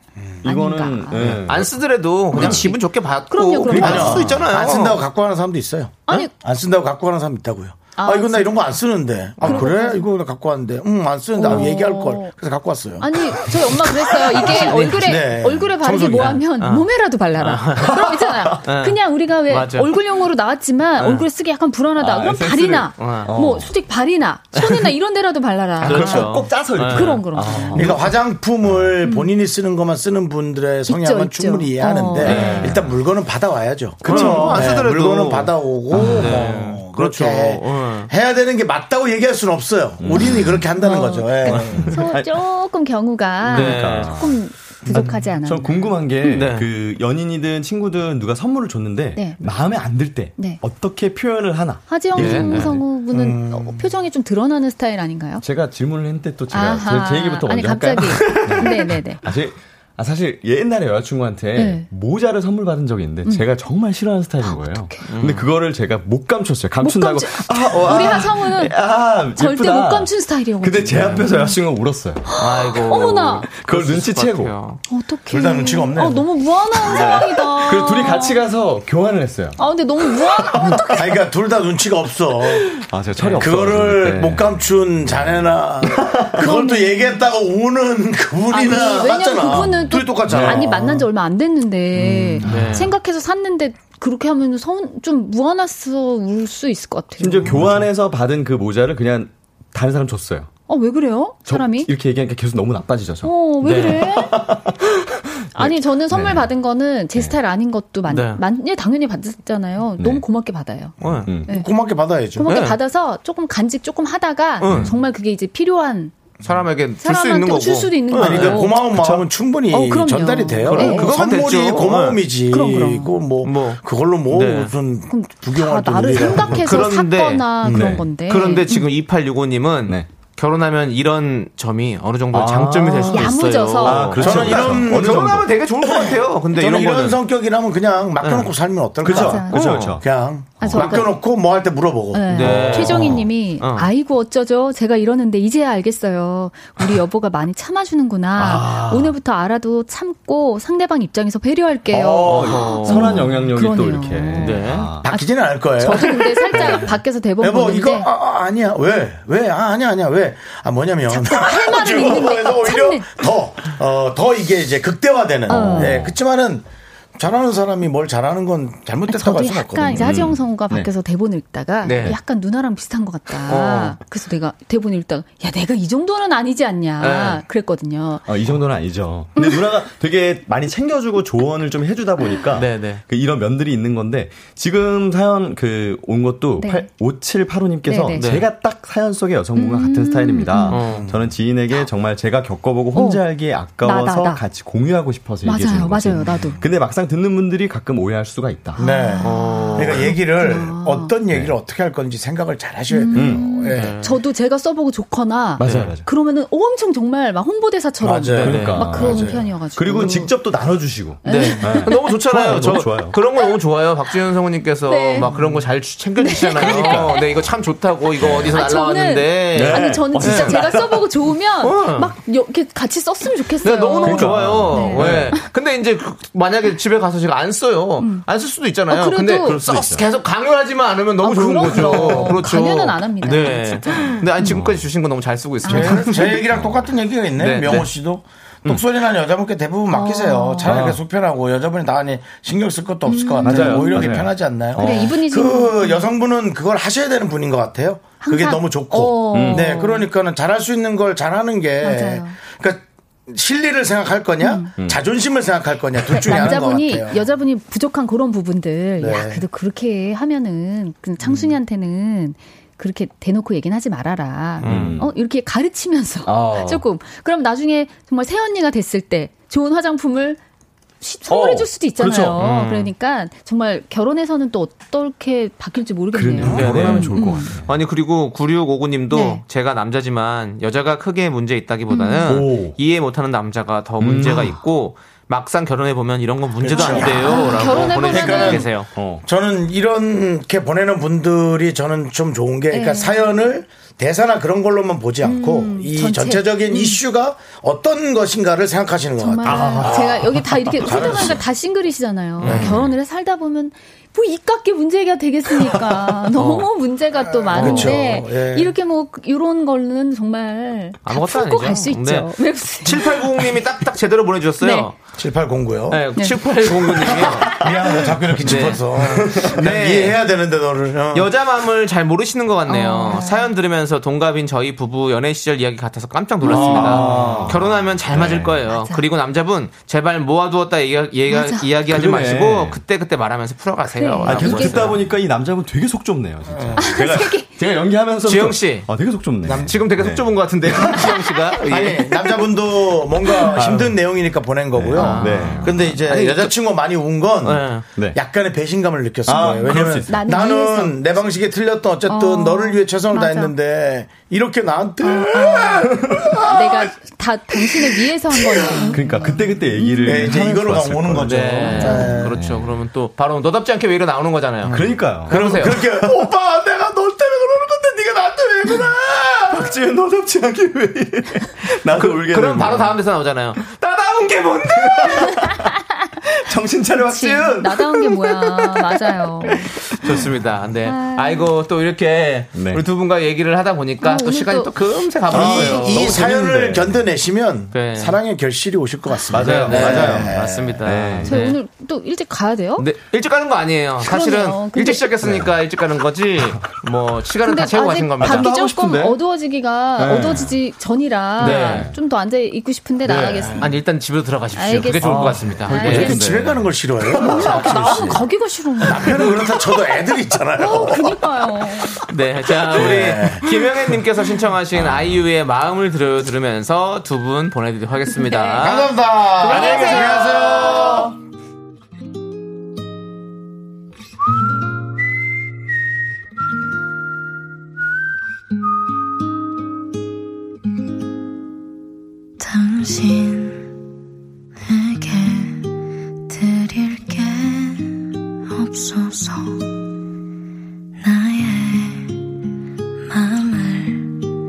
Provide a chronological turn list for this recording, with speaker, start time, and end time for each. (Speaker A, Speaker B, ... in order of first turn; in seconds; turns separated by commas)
Speaker A: 0.4-1.2, Speaker B: 0.4-1.8, Speaker C: 1.1-5.0, Speaker D: 2.3-2.7, Speaker B: 2.3-2.7, Speaker A: 3.3-4.3, Speaker B: 3.6-4.4, Speaker D: 3.7-16.4, Speaker A: 6.1-6.3, Speaker A: 8.0-8.7, Speaker A: 9.4-10.1, Speaker A: 11.4-12.3, Speaker A: 13.0-27.9, Speaker C: 16.4-16.9, Speaker C: 17.4-17.9, Speaker B: 17.8-18.6, Speaker C: 18.6-19.0, Speaker C: 19.5-19.9, Speaker C: 21.0-21.2, Speaker B: 22.0-23.7, Speaker C: 23.0-23.3, Speaker C: 24.5-24.9, Speaker C: 25.8-27.2, Speaker B: 25.8-28.1, Speaker D: 27.7-41.9, Speaker B: 28.6-28.9, Speaker A: 29.0-29.3, Speaker A: 30.9-32.6, Speaker B: 32.2-32.8, Speaker C: 32.2-32.8, Speaker B: 34.0-34.8, Speaker C: 34.0-38.1, Speaker B: 35.9-36.5, Speaker B: 40.0-40.6, Speaker A: 40.5-41.3, Speaker B: 41.4-42.3, Speaker A: 41.9-46.4, Speaker B: 43.5-52.8, Speaker C: 43.5-44.1, Speaker C: 46.2-46.7, Speaker A: 49.1-49.4, Speaker A: 51.9-55.4, Speaker C: 52.1-52.8, Speaker D: 53.1-53.8, Speaker B: 55.4-72.2, Speaker A: 56.5-59.2, Speaker C: 58.2-58.6, Speaker A: 61.5-61.9, Speaker A: 64.4-65.0, Speaker C: 65.1-65.5, Speaker A: 66.8-68.8, Speaker A: 69.3-71.6, Speaker A: 72.3-73.5, Speaker C: 72.4-74.8, Speaker B: 73.6-74.5, Speaker A: 74.9-78.4, Speaker D: 75.3-76.3, Speaker B: 76.8-79.6, Speaker A: 79.6-81.0, Speaker B: 80.1-80.9, Speaker D: 80.9-82.8, Speaker B: 82.7-84.5, Speaker C: 83.2-83.5, Speaker D: 83.4-91.1, Speaker B: 86.0-86.3, Speaker A: 86.4-87.2, Speaker A: 88.5-97.5, Speaker B: 90.2-90.7, Speaker B: 91.9-92.9, Speaker C: 92.4-92.9, Speaker B: 97.2-100.5, Speaker D: 97.5-97.8, Speaker A: 100.7-101.9, Speaker B: 101.5-106.5, Speaker A: 103.2-104.3, Speaker C: 103.6-104.0, Speaker A: 105.5-110.9, Speaker C: 108.1-108.4, Speaker C: 111.0-111.3, Speaker D: 111.0-112.5, Speaker A: 112.4-116.1, Speaker C: 112.5-112.8, Speaker C: 114.6-114.9, Speaker B: 114.6-114.9, Speaker C: 116.4-118.6, Speaker A: 117.0-118.9, Speaker D: 118.1-126.9, Speaker B: 118.7-119.2, Speaker A: 119.7-121.1, Speaker C: 120.7-122.2, Speaker A: 122.5-123.1, Speaker C: 123.4-124.7, Speaker A: 125.1-128.9, Speaker C: 126.5-127.5, Speaker D: 127.6-128.0, Speaker B: 127.7-128.1, Speaker C: 128.3-137.2, Speaker B: 132.3-135.5, Speaker A: 132.9-134.1, Speaker D: 134.2-143.2, Speaker C: 138.2-138.5, Speaker A: 139.0-139.6, Speaker B: 139.0-140.0, Speaker C: 139.5-140.0, Speaker A: 140.6-141.1, Speaker C: 140.8-141.0, Speaker A: 142.1-158.1, Speaker C: 142.3-143.9, Speaker B: 142.8-143.2, Speaker B: 148.4-149.1, Speaker D: 151.9-152.8, Speaker B: 152.2-155.0, Speaker C: 152.4-153.3, Speaker C: 154.4-154.9, Speaker D: 155.0-170.1, Speaker B: 156.6-156.9, Speaker A: 161.1-163.1, Speaker A: 165.5-166.0, Speaker B: 165.6-166.1, Speaker A: 169.1-178.2, Speaker C: 170.0-170.3, Speaker B: 170.0-170.9, Speaker C: 171.8-172.2, Speaker C: 173.5-174.0, Speaker C: 177.0-177.4, Speaker B: 178.2-198.8, Speaker C: 182.5-183.0, Speaker A: 186.6-186.9, Speaker A: 187.8-188.2, Speaker C: 188.2-188.4, Speaker A: 189.6-190.8, Speaker C: 190.7-191.1, Speaker D: 190.9-191.3, Speaker A: 192.9-193.2, Speaker A: 193.8-194.4, Speaker A: 195.4-196.6, Speaker A: 198.7-201.1, Speaker D: 198.8-204.0, Speaker C: 199.2-200.1, Speaker A: 202.9-210.3, Speaker B: 203.1-203.4, Speaker C: 203.7-204.2, Speaker B: 205.6-206.1, Speaker C: 205.6-205.9, Speaker D: 208.0-209.5, Speaker C: 208.3-208.9, Speaker B: 208.4-213.2, Speaker A: 211.2-212.2, Speaker C: 211.2-220.7, Speaker A: 214.9-215.3, Speaker B: 215.2-215.6, Speaker A: 216.2-217.3, Speaker B: 216.6-217.2, Speaker B: 218.2-218.6, Speaker A: 218.5-225.4, Speaker B: 219.5-221.1, Speaker C: 221.6-222.1, Speaker C: 223.6-236.4, Speaker B: 224.0-225.3, Speaker A: 228.9-229.6, Speaker B: 229.4-230.0, Speaker A: 231.2-234.2, Speaker B: 231.6-232.4, Speaker B: 234.0-234.8, Speaker A: 235.6-236.3, Speaker D: 235.6-257.2, Speaker B: 236.5-236.8, Speaker C: 237.4-237.9, Speaker A: 239.9-240.8, Speaker B: 240.7-241.0, Speaker A: 243.1-244.1, Speaker B: 243.4-245.2, Speaker A: 244.8-246.1, Speaker A: 248.2-250.1, Speaker B: 249.3-249.8, Speaker A: 251.8-252.3, Speaker A: 254.4-254.7, Speaker A: 256.1-270.4, Speaker D: 259.0-259.4, Speaker C: 264.6-264.9, Speaker B: 264.6-265.1, Speaker B: 266.2-266.8, Speaker A: 271.0-277.5, Speaker B: 271.3-272.4, Speaker C: 272.4-272.9, Speaker B: 276.1-277.7, Speaker C: 276.5-288.9, Speaker A: 279.1-279.4, Speaker A: 281.9-282.4, Speaker B: 282.2-282.8, Speaker B: 284.0-284.6, Speaker D: 286.6-301.4, Speaker A: 286.8-288.7, Speaker B: 288.9-289.2, Speaker A: 292.7-293.4, Speaker A: 295.2-297.0, Speaker A: 299.2-313.2, Speaker B: 299.5-299.9, Speaker C: 302.4-302.8, Speaker D: 302.4-302.8, Speaker C: 306.4-306.7, Speaker D: 307.3-308.7, Speaker C: 307.5-307.9, Speaker C: 311.0-315.0, Speaker A: 314.6-314.9, Speaker D: 315.2-316.0, Speaker C: 315.9-317.7, Speaker A: 316.2-316.5, Speaker D: 316.6-321.3, Speaker B: 318.3-319.5, Speaker C: 318.4-320.2, Speaker C: 321.1-335.0, Speaker A: 322.7-323.5, Speaker A: 326.4-327.0, Speaker B: 326.4-328.6, Speaker D: 326.8-327.6, Speaker A: 328.7-329.0, Speaker A: 331.3-331.7, Speaker B: 331.9-332.8, Speaker A: 333.9-334.9, Speaker B: 334.2-341.4, Speaker D: 336.5-336.9, Speaker A: 336.8-337.5, Speaker C: 338.2-338.9, Speaker D: 339.4-339.8, Speaker C: 339.4-342.0, Speaker D: 341.7-356.9, Speaker A: 342.1-342.4, Speaker A: 343.3-343.5, Speaker B: 343.5-343.9, Speaker B: 344.7-346.0, Speaker C: 344.9-346.5, Speaker C: 347.4-347.9, Speaker B: 349.2-350.2, Speaker A: 349.4-351.0, Speaker A: 352.1-353.5, Speaker A: 355.0-360.3, Speaker D: 357.5-359.0, Speaker B: 358.9-362.7, Speaker D: 360.0-362.4, Speaker C: 361.2-365.8, Speaker A: 361.6-362.2, Speaker D: 364.6-366.4, Speaker B: 364.7-373.0, Speaker D: 368.1-369.6, Speaker C: 371.9-375.4, Speaker B: 374.8-375.6, Speaker B: 376.2-380.3, Speaker A: 377.1-379.7, Speaker C: 380.0-386.1, Speaker A: 380.8-381.5, Speaker B: 382.5-382.8, Speaker A: 384.0-384.7, Speaker D: 385.3-390.9, Speaker B: 385.3-387.0, Speaker C: 387.7-388.2, Speaker B: 389.3-390.3, Speaker C: 389.4-391.6, Speaker B: 390.8-391.4, Speaker A: 391.2-392.9, Speaker C: 392.8-398.5, Speaker A: 394.0-395.1, Speaker B: 395.2-395.5, Speaker A: 397.4-403.6, Speaker B: 398.2-399.2, Speaker B: 400.0-400.6, Speaker C: 401.4-401.9, Speaker B: 401.4-401.9, Speaker C: 403.1-406.6, Speaker A: 404.6-406.2, Speaker B: 405.0-405.5, Speaker D: 405.1-408.2, Speaker A: 407.1-409.3, Speaker B: 407.3-408.1, Speaker D: 408.8-413.9, Speaker A: 410.6-412.0, Speaker C: 412.0-420.9, Speaker A: 418.1-418.6, Speaker D: 418.6-421.1, Speaker A: 419.4-421.1, Speaker E: 432.4-433.6, Speaker E: 434.6-435.7, Speaker E: 436.3-438.0, Speaker E: 438.5-439.8, Speaker E: 441.0-442.2, Speaker E: 443.1-444.1